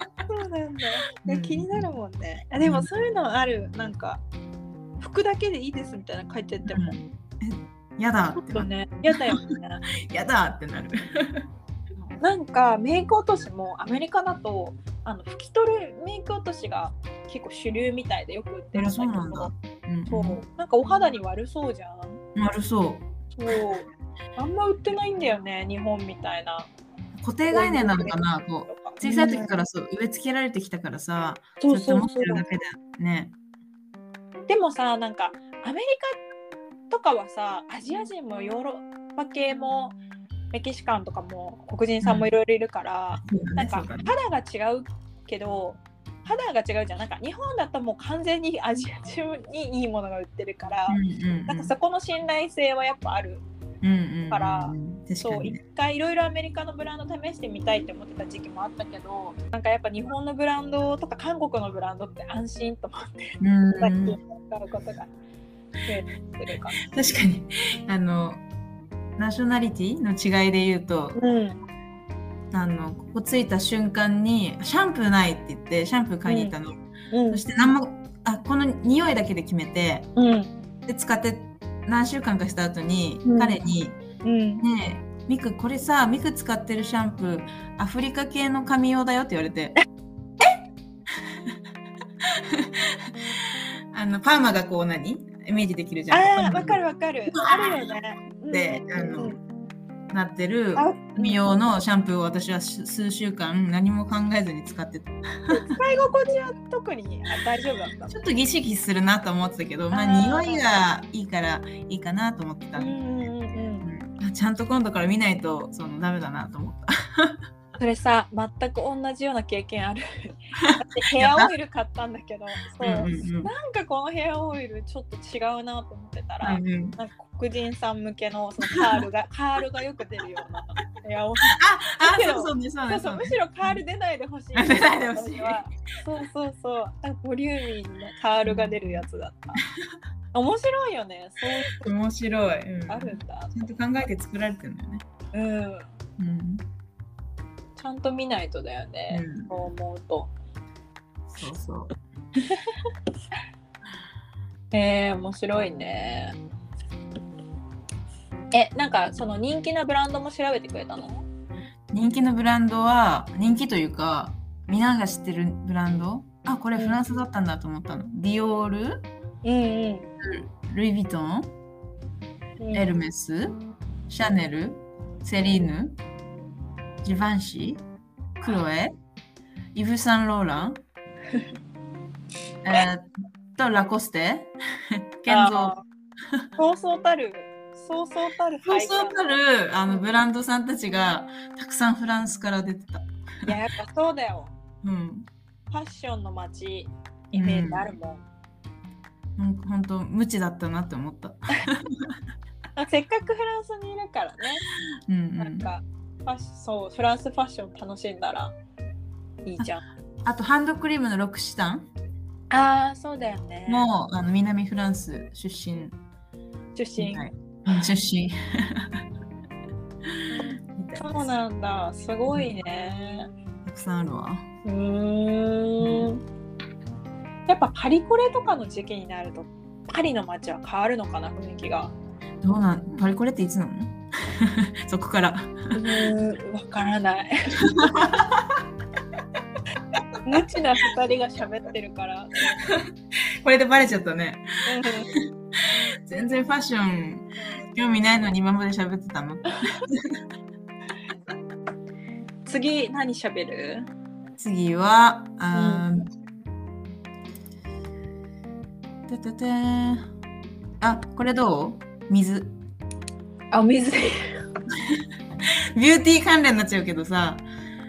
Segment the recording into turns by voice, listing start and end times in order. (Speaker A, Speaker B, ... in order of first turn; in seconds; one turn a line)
Speaker A: 0.2-4.2
Speaker B: 1.3-1.9
Speaker B: 2.6-2.9
Speaker A: 5.0-7.0
Speaker B: 6.7-8.7
Speaker A: 8.4-9.8
Speaker B: 10.0-11.5
Speaker A: 12.0-19.6
Speaker B: 18.8-20.4
Speaker A: 20.1-22.2
Speaker B: 22.4-23.1
Speaker A: 23.4-26.7
Speaker B: 27.2-33.4
Speaker A: 27.5-29.6
Speaker A: 31.6-32.4
Speaker A: 34.5-36.2
Speaker A: 36.9-40.0
Speaker A: 40.5-53.4
Speaker B: 42.0-42.3
Speaker B: 43.1-44.1
Speaker B: 50.9-51.7
Speaker B: 53.8-55.6
Speaker A: 54.3-65.1
Speaker B: 63.4-64.2
Speaker A: 65.8-66.8
Speaker B: 66.8-68.5
Speaker B: 69.2-71.2
Speaker A: 71.1-71.6
Speaker B: 72.5-76.8
Speaker A: 76.3-76.5
Speaker A: 77.1-77.4
Speaker B: 77.3-80.1
Speaker A: 80.2-80.5
Speaker B: 80.9-84.0
Speaker A: 83.2-83.6
Speaker A: 84.2-84.6
Speaker B: 84.6-89.8
Speaker B: 92.3-96.8
Speaker A: 96.1-99.4
Speaker B: 97.3-97.9
Speaker B: 98.5-99.4
Speaker B: 100.1-105.8
Speaker A: 100.8-101.4
Speaker A: 105.5-108.2
Speaker B: 108.1-113.3
Speaker A: 109.9-110.7
Speaker A: 112.8-113.9
Speaker B: 113.8-117.4
Speaker A: 117.8-139.6
Speaker B: 120.6-121.5
Speaker B: 122.8-123.5
Speaker B: 126.4-127.0
Speaker B: 131.5-133.8
Speaker B: 134.5-135.6
Speaker B: 138.5-139.1
Speaker A: 140.3-141.9
Speaker B: 141.8-145.1
Speaker A: 142.9-143.6
Speaker A: 145.3-145.9
Speaker B: 146.2-146.7
Speaker A: 147.8-150.3
Speaker B: 149.1-149.6
Speaker B: 151.3-151.9
Speaker A: 152.5-152.8
Speaker A: 154.7-156.4
Speaker A: 158.5-161.3
Speaker B: 161.9-169.1
Speaker A: 166.8-167.0
Speaker A: 169.4-170.1
Speaker B: 170.2-171.6
Speaker A: 172.6-172.9
Speaker B: 172.7-176.0
Speaker B: 177.0-177.8
Speaker B: 178.4-178.9
Speaker B: 179.7-180.8
Speaker B: 182.6-185.8
Speaker A: 185.3-185.8
Speaker A: 186.6-189.4
Speaker B: 188.6-193.5
Speaker A: 193.4-194.6
Speaker B: 194.8-195.3
Speaker A: 195.7-198.2
Speaker B: 197.3-197.9
Speaker B: 199.4-202.1
Speaker A: 202.8-204.6
Speaker B: 205.1-205.7
Speaker A: 205.4-208.6
Speaker A: 209.4-209.8
Speaker B: 210.2-211.9
Speaker A: 212.5-213.9
Speaker B: 213.7-216.0
Speaker A: 216.8-217.8
Speaker B: 217.0-219.0
Speaker B: 220.8-221.3
Speaker A: 221.0-223.3
Speaker B: 222.3-222.5
Speaker B: 223.6-224.5
Speaker A: 224.6-226.2
Speaker B: 225.8-226.1
Speaker A: 227.5-231.9
Speaker B: 232.4-236.1
Speaker A: 235.7-238.1
Speaker B: 237.6-238.5
Speaker A: 240.2-242.7
Speaker B: 243.4-250.2
Speaker A: 244.7-245.1
Speaker A: 252.5-253.9
Speaker B: 254.4-256.1
Speaker A: 255.5-255.8
Speaker B: 259.1-260.1
Speaker B: 260.8-262.6
Speaker A: 263.5-264.4
Speaker B: 265.8-267.5